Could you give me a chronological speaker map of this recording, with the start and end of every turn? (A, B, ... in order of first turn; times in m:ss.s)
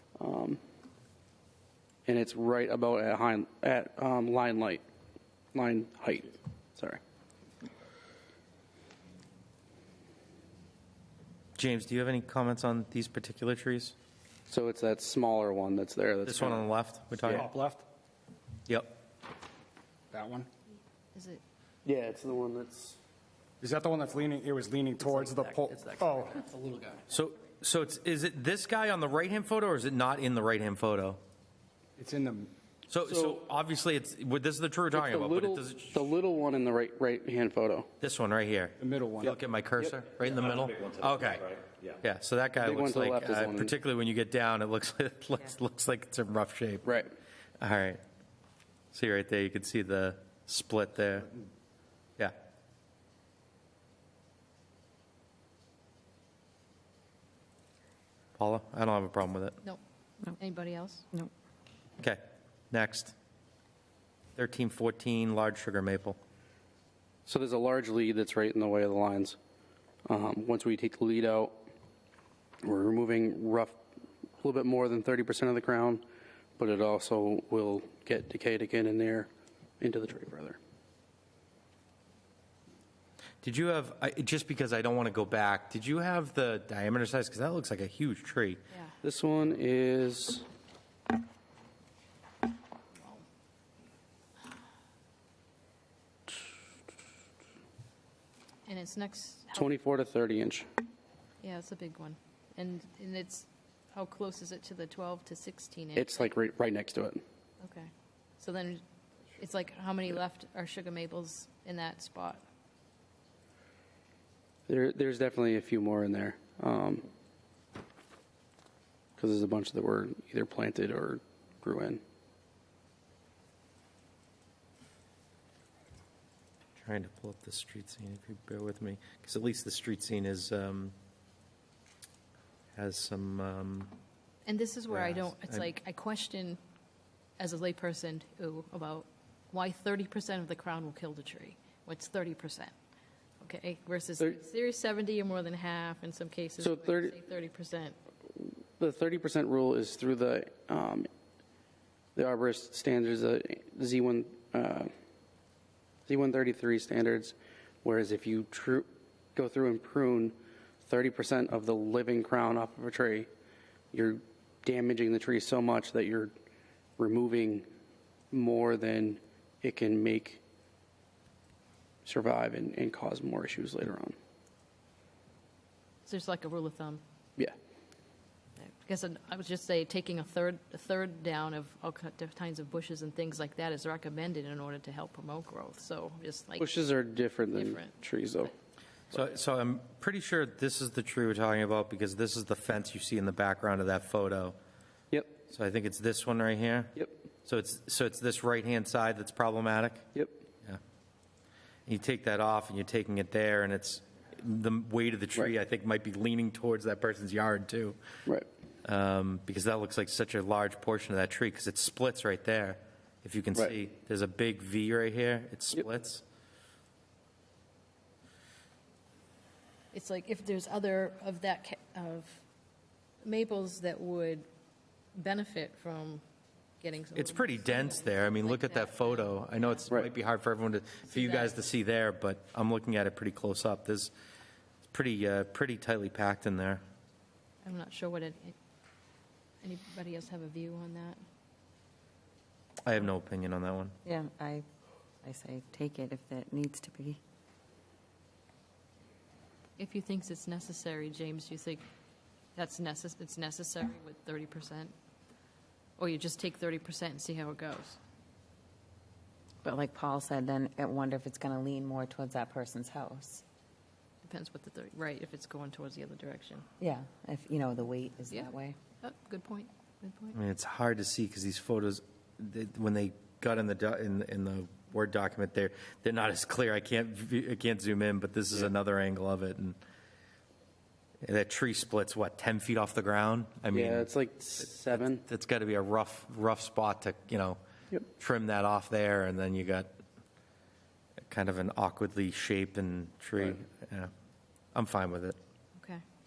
0:00.2-0:00.6 A
0:02.1-0:04.8 A
0:05.5-0:07.0 A
0:11.6-0:14.0 B
0:14.5-0:16.7 A
0:16.2-0:17.5 B
0:17.2-0:17.5 A
0:17.2-0:17.9 C
0:18.7-0:19.0 B
0:20.1-0:20.5 C
0:21.1-0:21.4 D
0:21.8-0:23.0 A
0:23.6-0:27.0 C
0:27.1-0:31.2 B
0:32.0-0:32.5 C
0:32.9-0:36.1 B
0:33.0-0:33.4 A
0:34.9-0:37.9 A
0:38.0-0:47.0 B
0:38.8-0:39.4 C
0:42.6-0:43.7 A
0:46.8-0:47.1 A
0:47.6-0:48.0 B
0:48.9-0:51.3 B
0:58.4-0:59.6 B
1:00.3-1:01.1 D
1:02.0-1:03.2 B
1:04.4-1:06.2 B
1:07.2-1:09.4 A
1:10.1-1:11.6 A
1:12.6-1:13.7 A
1:14.4-1:16.0 A
1:16.6-1:19.3 A
1:19.8-1:20.6 A
1:23.4-1:28.6 B
1:29.0-1:30.4 A
1:33.0-1:33.2 D
1:38.7-1:39.7 D
1:39.5-1:40.7 A
1:41.4-1:46.3 D
1:45.9-1:47.2 A
1:47.6-1:48.8 D
1:49.4-1:52.4 D
1:54.7-1:57.0 A
1:59.2-2:02.0 A
2:06.8-2:10.9 B
2:12.8-2:13.9 B
2:14.4-2:16.6 D
2:14.9-2:15.7 B
2:17.4-2:22.7 D
2:23.4-2:28.0 D
2:26.6-2:27.1 A
2:28.4-2:31.1 A
2:32.2-2:34.9 A
2:36.1-2:43.3 A
2:43.9-2:46.3 A
2:47.0-2:47.7 A
2:48.3-2:50.4 A
2:52.0-2:54.2 A
2:56.1-2:57.0 D
2:58.6-3:06.8 D
3:06.6-3:08.5 A
3:07.5-3:07.9 D
3:09.1-3:14.6 B
3:15.1-3:15.4 A
3:15.5-3:20.0 B
3:20.1-3:20.4 A
3:21.8-3:28.0 B
3:28.8-3:36.2 B
3:39.9-3:42.4 D
3:43.2-3:44.4 D
3:45.1-3:46.2 D
3:46.8-3:49.9 D
3:47.2-3:54.1 B
3:51.1-3:51.6 D
3:54.9-3:56.8 B
3:57.6-3:58.5 D
3:59.6-4:01.2 D
4:02.8-4:03.9 B
4:04.0-4:04.7 E
4:05.2-4:07.2 E
4:09.8-4:11.8 D
4:12.6-4:14.9 D
4:16.0-4:18.0 D
4:19.6-4:23.4 E
4:24.2-4:26.7 D
4:26.8-4:28.8 E
4:28.3-4:30.4 D
4:30.3-4:39.8 B
4:41.2-4:44.1 B
4:43.7-4:45.2 A
4:44.9-4:47.6 B
4:48.2-4:49.9 B
4:51.3-4:54.1 B
4:54.7-4:55.4 B
4:55.8-4:56.0 D